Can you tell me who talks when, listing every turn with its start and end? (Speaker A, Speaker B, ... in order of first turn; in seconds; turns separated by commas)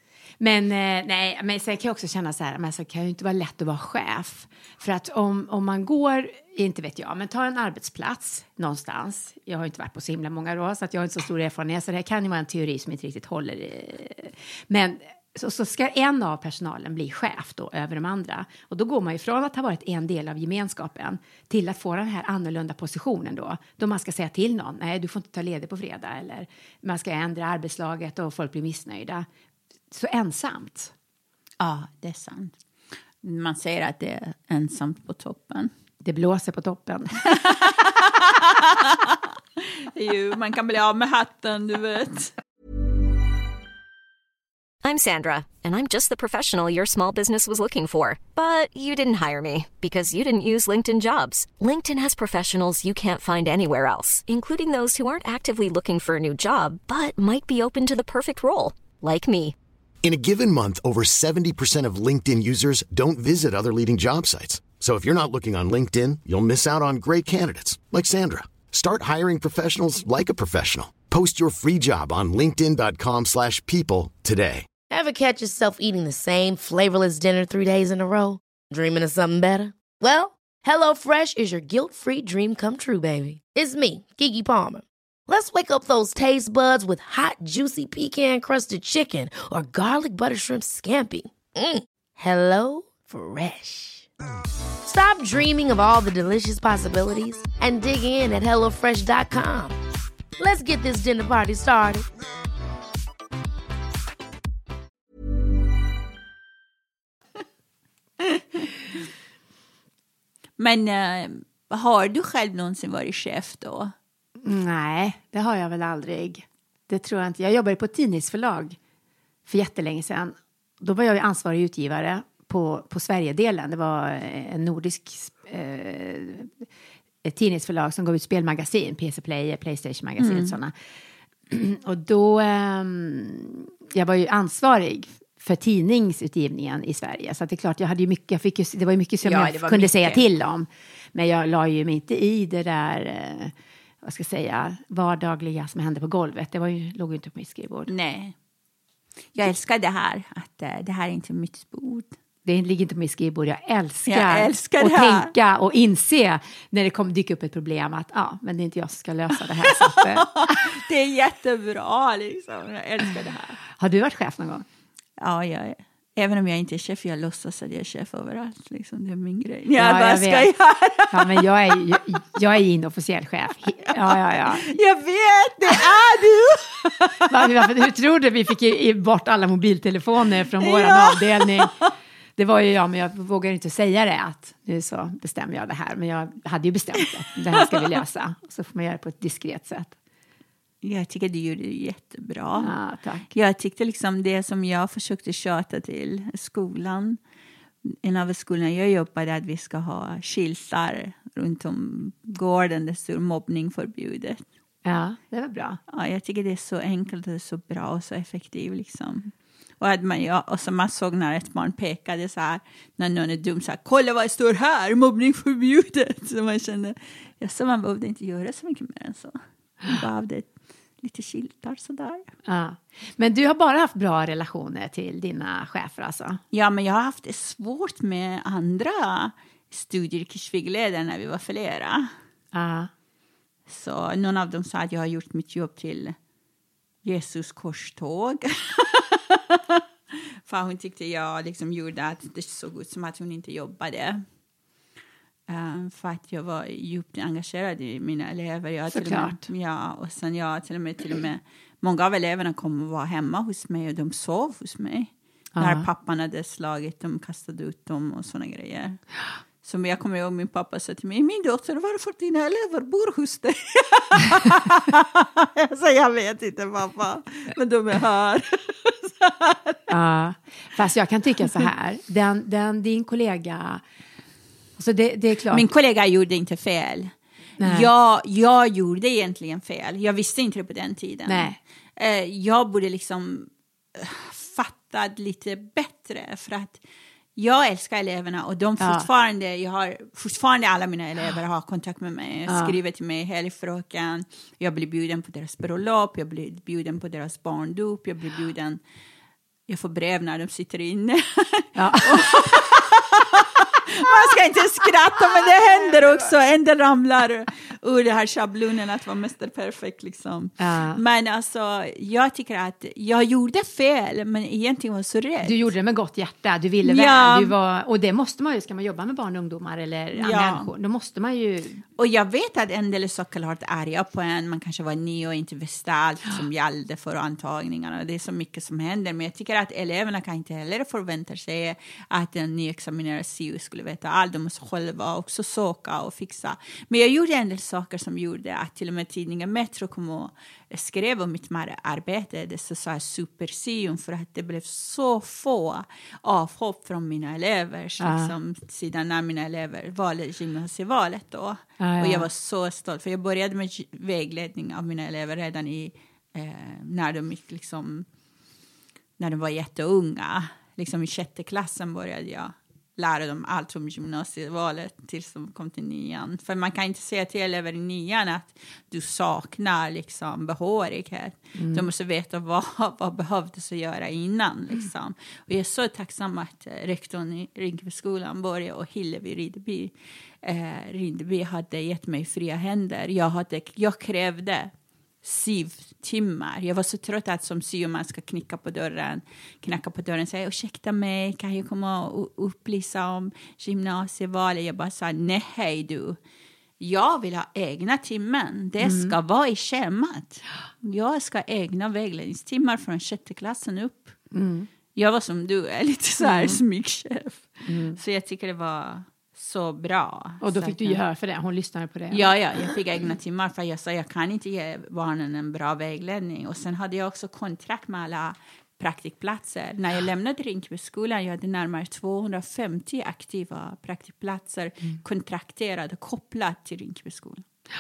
Speaker A: 0.4-29.3, Speaker A: 29.9-30.9, Speaker B: 31.6-32.6, Speaker B: 33.2-35.7, Speaker A: 36.0-37.7, Speaker B: 37.4-42.3, Speaker C: 44.8-59.5, Speaker D: 60.0-74.7, Speaker E: 74.9-94.1, Speaker E: 94.8-99.8, Speaker E: 100.4-102.0, Speaker B: 110.6-113.9, Speaker A: 114.4-118.8, Speaker A: 119.5-126.5, Speaker A: 127.2-130.7, Speaker B: 130.2-130.6, Speaker A: 131.5-147.9, Speaker B: 139.2-140.2, Speaker B: 147.9-148.3, Speaker B: 149.3-152.1, Speaker A: 152.4-160.6, Speaker B: 154.1-155.3, Speaker B: 159.6-163.6, Speaker A: 163.7-164.7, Speaker B: 165.2-171.5, Speaker A: 169.8-170.5, Speaker A: 171.1-174.7, Speaker B: 173.9-177.5, Speaker A: 177.3-181.7, Speaker B: 180.6-181.8, Speaker A: 182.4-190.0, Speaker B: 190.8-192.7, Speaker A: 192.6-193.3, Speaker B: 193.3-197.2, Speaker B: 197.9-204.4, Speaker A: 204.8-205.8, Speaker B: 205.9-222.3, Speaker A: 222.5-226.4, Speaker B: 226.5-232.1, Speaker A: 232.5-232.9, Speaker B: 233.7-236.2, Speaker B: 237.0-239.8, Speaker B: 240.5-244.2, Speaker B: 245.5-259.0, Speaker A: 248.9-249.4, Speaker A: 255.6-255.9, Speaker B: 259.6-269.9, Speaker A: 269.9-273.8, Speaker A: 274.8-275.7, Speaker B: 275.5-286.8, Speaker A: 277.6-277.9, Speaker A: 281.3-281.6, Speaker B: 287.4-298.8, Speaker A: 288.8-289.1, Speaker A: 292.5-292.8, Speaker B: 299.7-315.7, Speaker A: 301.8-302.5, Speaker A: 305.2-306.3, Speaker A: 310.6-311.0, Speaker A: 315.4-321.8, Speaker B: 316.8-317.6, Speaker B: 320.2-320.7, Speaker B: 322.0-358.1, Speaker A: 348.0-348.3, Speaker A: 351.8-352.3, Speaker B: 359.2-384.7, Speaker A: 371.6-371.9, Speaker B: 385.2-396.2, Speaker B: 396.8-404.2, Speaker A: 398.8-399.2, Speaker A: 404.3-404.7, Speaker B: 404.9-411.0, Speaker A: 406.2-406.6, Speaker A: 407.7-408.0, Speaker A: 410.4-412.8, Speaker B: 412.1-427.5